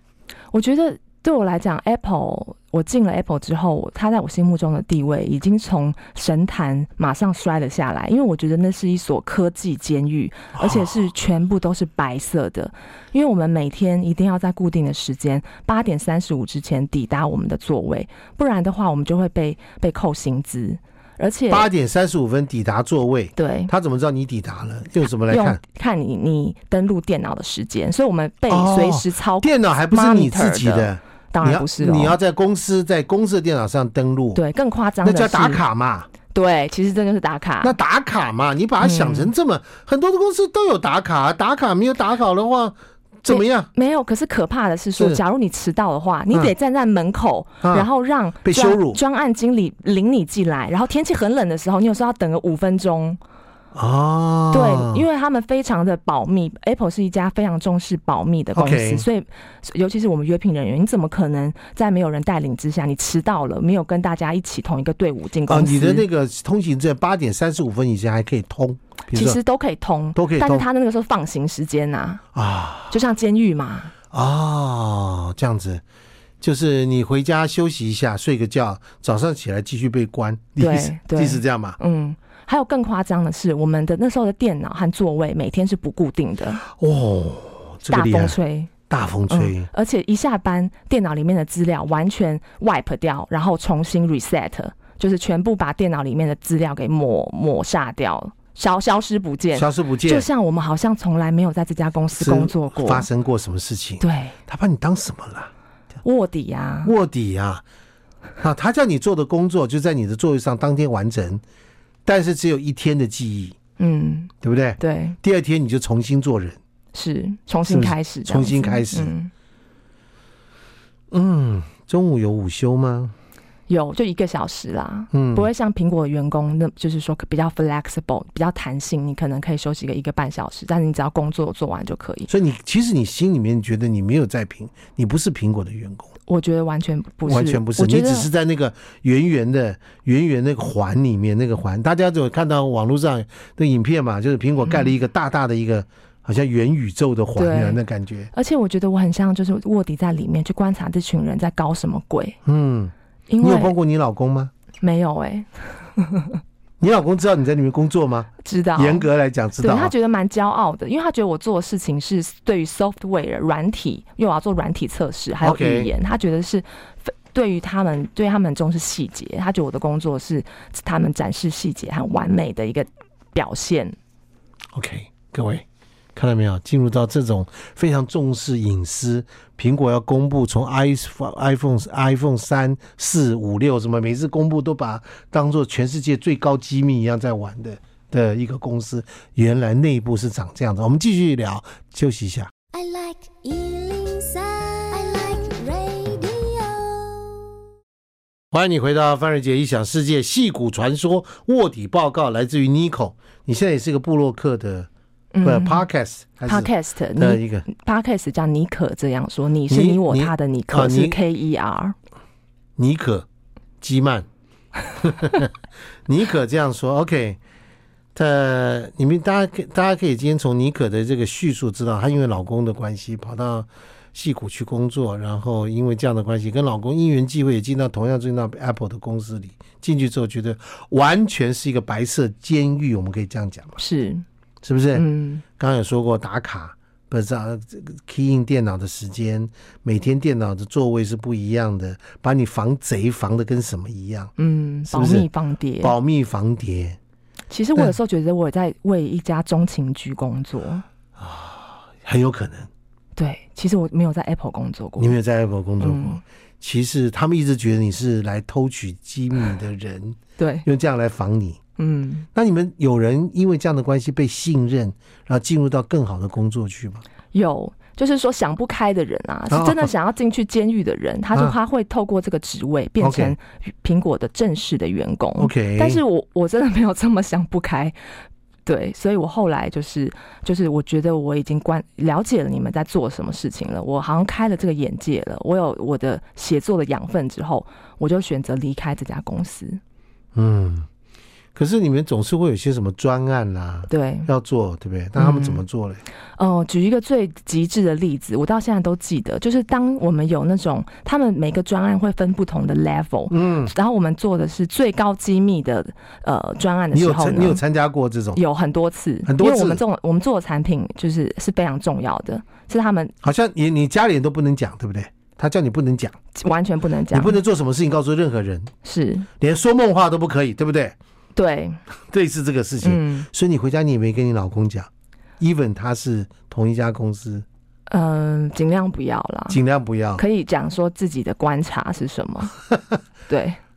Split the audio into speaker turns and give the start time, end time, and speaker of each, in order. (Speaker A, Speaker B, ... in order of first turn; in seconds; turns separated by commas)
Speaker A: 0.5-21.7, Speaker B: 10.6-10.9, Speaker B: 21.5-25.6, Speaker A: 23.4-23.7, Speaker A: 25.3-32.2, Speaker B: 28.5-34.4, Speaker A: 34.4-35.6, Speaker B: 35.0-36.1, Speaker A: 36.3-37.8, Speaker B: 37.6-43.7, Speaker A: 38.8-39.3, Speaker A: 43.3-53.2, Speaker B: 47.6-47.9, Speaker B: 48.4-49.0, Speaker B: 53.7-55.0, Speaker A: 54.5-66.0, Speaker B: 58.5-59.0, Speaker B: 65.5-69.4, Speaker A: 69.1-72.2, Speaker B: 70.2-70.7, Speaker B: 72.3-73.0, Speaker A: 72.9-73.9, Speaker B: 74.1-75.8, Speaker B: 76.4-81.8, Speaker A: 80.6-86.6, Speaker B: 86.6-88.4, Speaker A: 87.9-88.7, Speaker B: 88.9-89.7, Speaker A: 89.3-103.1, Speaker B: 99.5-100.3, Speaker B: 102.2-105.5, Speaker A: 104.0-104.4, Speaker A: 106.0-106.9, Speaker B: 106.8-107.6, Speaker B: 108.4-111.4, Speaker B: 112.1-113.6, Speaker A: 113.8-115.2, Speaker B: 114.4-116.6, Speaker A: 116.9-119.3, Speaker B: 117.7-119.1, Speaker B: 121.1-123.1, Speaker A: 123.7-132.3, Speaker B: 125.1-125.5, Speaker B: 132.3-136.1, Speaker A: 136.3-138.3, Speaker B: 137.3-148.3, Speaker A: 147.4-147.8, Speaker A: 148.3-152.4, Speaker B: 152.4-154.5, Speaker A: 153.3-153.8, Speaker A: 154.8-156.4, Speaker B: 156.8-159.9, Speaker A: 158.4-159.1, Speaker A: 159.6-174.0, Speaker B: 165.4-165.9, Speaker B: 174.8-192.5, Speaker C: 192.7-197.5, Speaker B: 198.5-204.9, Speaker A: 205.3-205.9, Speaker B: 205.4-207.7, Speaker A: 206.5-212.0, Speaker B: 209.7-211.2, Speaker B: 212.8-213.3, Speaker B: 213.8-214.3, Speaker B: 215.0-215.5, Speaker B: 216.1-217.4, Speaker B: 218.2-233.8, Speaker A: 233.8-234.2, Speaker B: 234.6-244.3, Speaker A: 234.9-235.4, Speaker A: 244.4-245.9, Speaker B: 244.9-245.3, Speaker B: 245.8-247.0, Speaker A: 247.5-250.8, Speaker B: 251.2-252.7, Speaker A: 253.2-255.2, Speaker B: 255.0-261.6, Speaker A: 255.8-256.2, Speaker A: 260.4-260.7, Speaker A: 261.8-262.3, Speaker B: 262.3-267.0, Speaker A: 267.3-278.0, Speaker B: 269.5-269.9, Speaker B: 273.0-273.4, Speaker B: 275.4-276.0, Speaker A: 278.7-289.8, Speaker B: 290.4-290.9, Speaker B: 291.6-296.0, Speaker A: 293.9-294.3, Speaker A: 295.2-295.6, Speaker A: 296.4-307.6, Speaker B: 303.3-303.7, Speaker B: 306.9-308.4, Speaker A: 308.4-313.1, Speaker B: 309.3-309.8, Speaker B: 313.2-316.2, Speaker A: 316.4-317.4, Speaker B: 317.1-318.7, Speaker A: 318.8-319.3, Speaker B: 319.4-320.9, Speaker A: 321.4-321.8, Speaker B: 322.1-324.9, Speaker A: 322.8-323.3, Speaker B: 325.4-327.4, Speaker A: 327.9-329.6, Speaker B: 329.5-330.2, Speaker A: 330.2-332.6, Speaker A: 333.3-333.6